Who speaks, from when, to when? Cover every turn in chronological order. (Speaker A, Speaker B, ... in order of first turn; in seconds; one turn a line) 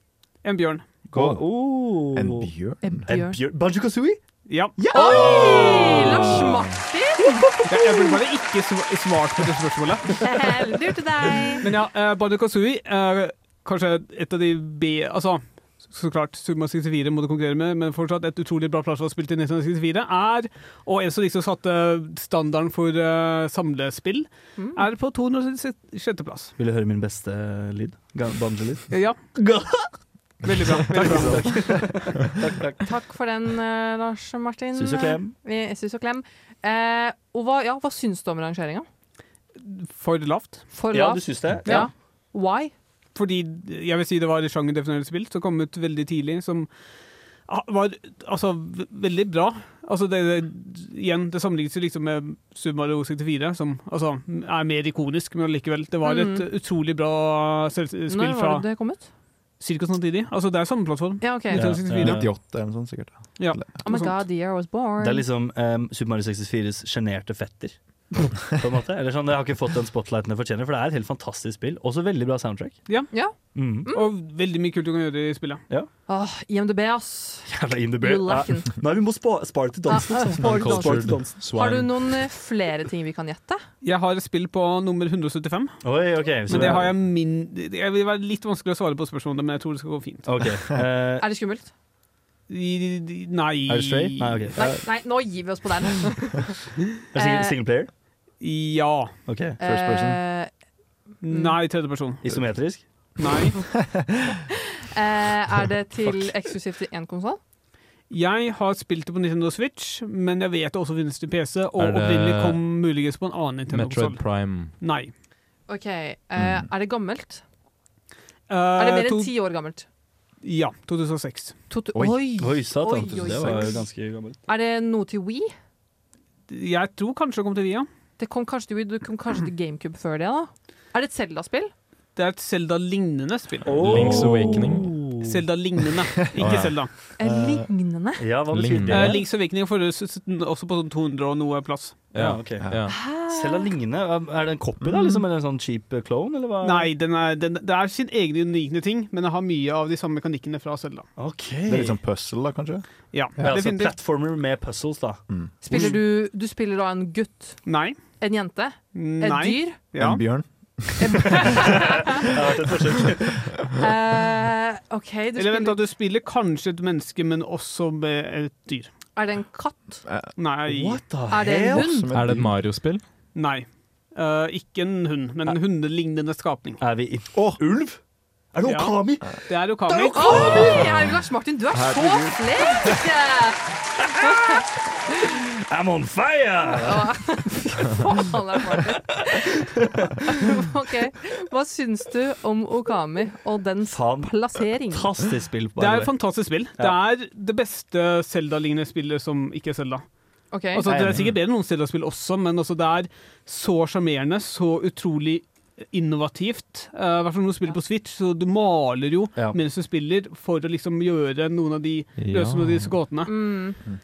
Speaker A: 0.4-0.8
Speaker B: 1.1-2.5
Speaker C: 1.1-3.1
Speaker D: 2.8-3.4
Speaker B: 3.1-4.2
Speaker A: 4.5-5.1
Speaker B: 4.8-6.6
Speaker D: 4.9-7.5
Speaker B: 7.5-8.1
Speaker A: 7.7-10.2
Speaker D: 10.2-11.6
Speaker A: 11.6-26.5
Speaker D: 24.6-24.8
Speaker B: 26.6-29.9
Speaker A: 28.9-29.2
Speaker A: 30.4-31.6
Speaker B: 30.7-32.9
Speaker D: 32.8-38.9
Speaker B: 34.7-35.3
Speaker A: 39.6-40.7
Speaker D: 40.7-42.7
Speaker B: 40.9-41.9
Speaker A: 43.1-46.7
Speaker A: 47.5-58.7
Speaker D: 56.0-56.5
Speaker D: 58.1-59.1
Speaker A: 59.6-62.3
Speaker D: 61.2-61.6
Speaker B: 61.5-62.3
Speaker C: 61.6-63.7
Speaker A: 63.4-64.2
Speaker D: 63.8-65.2
Speaker B: 65.0-72.9
Speaker D: 73.1-74.0
Speaker B: 73.5-73.9
Speaker A: 73.9-75.6
Speaker D: 76.1-78.8
Speaker B: 77.5-81.4
Speaker D: 79.9-83.6
Speaker E: 80.4-82.1
Speaker A: 83.8-85.8
Speaker B: 85.8-87.0
Speaker A: 86.5-90.3
Speaker B: 90.2-91.2
Speaker D: 91.2-91.7
Speaker A: 92.5-94.5
Speaker B: 93.7-94.9
Speaker D: 94.6-96.5
Speaker B: 97.1-97.9
Speaker D: 97.1-97.6
Speaker A: 98.4-99.1
Speaker B: 99.3-99.6
Speaker C: 99.6-100.2
Speaker D: 99.6-100.5
Speaker A: 101.2-102.2
Speaker D: 101.2-101.6
Speaker B: 102.2-102.9
Speaker A: 103.2-103.6
Speaker C: 103.7-104.4
Speaker D: 104.8-107.4
Speaker A: 108.1-114.2
Speaker E: 111.8-112.6
Speaker E: 113.7-114.7
Speaker A: 114.8-115.1
Speaker D: 115.7-117.4
Speaker C: 116.4-116.6
Speaker A: 118.5-119.3
Speaker D: 118.8-119.8
Speaker A: 120.4-121.5
Speaker D: 121.7-123.8
Speaker C: 121.9-122.2
Speaker B: 122.4-124.4
Speaker D: 124.5-125.5
Speaker A: 126.5-127.9
Speaker D: 128.2-131.7
Speaker A: 132.2-134.3
Speaker B: 133.6-135.4
Speaker E: 133.8-134.9
Speaker A: 135.2-136.9
Speaker E: 136.4-136.8
Speaker D: 137.2-138.2
Speaker C: 137.2-137.7
Speaker B: 138.2-139.2
Speaker E: 138.5-139.2
Speaker A: 138.9-142.0
Speaker E: 142.1-143.0
Speaker B: 142.2-146.9
Speaker D: 142.9-143.7
Speaker C: 144.8-145.1
Speaker A: 146.6-151.1
Speaker B: 151.2-152.0
Speaker C: 151.7-152.8
Speaker A: 153.1-153.9
Speaker B: 153.4-156.0
Speaker D: 155.6-157.7
Speaker A: 157.7-158.0
Speaker D: 158.2-159.8
Speaker A: 158.9-160.2
Speaker C: 159.9-161.6
Speaker D: 161.0-162.2
Speaker B: 161.4-163.4
Speaker D: 163.8-165.8
Speaker A: 165.4-168.9
Speaker D: 169.2-170.0
Speaker C: 170.0-170.3
Speaker A: 170.4-171.0
Speaker B: 170.7-172.0
Speaker D: 171.3-172.1
Speaker C: 171.5-172.6
Speaker E: 172.1-173.0
Speaker A: 173.3-176.8
Speaker B: 176.8-178.0
Speaker C: 177.3-177.6
Speaker B: 178.5-180.9
Speaker A: 178.6-180.6
Speaker D: 180.0-183.6
Speaker C: 181.7-183.0
Speaker D: 184.2-185.4
Speaker B: 185.5-187.2
Speaker D: 186.8-189.6
Speaker B: 188.7-190.1
Speaker D: 190.2-195.1
Speaker B: 193.9-194.3
Speaker B: 194.9-196.1
Speaker A: 195.8-200.0
Speaker D: 200.5-200.9
Speaker A: 200.7-213.4
Speaker C: 200.9-201.3
Speaker E: 212.2-213.0
Speaker D: 213.2-213.8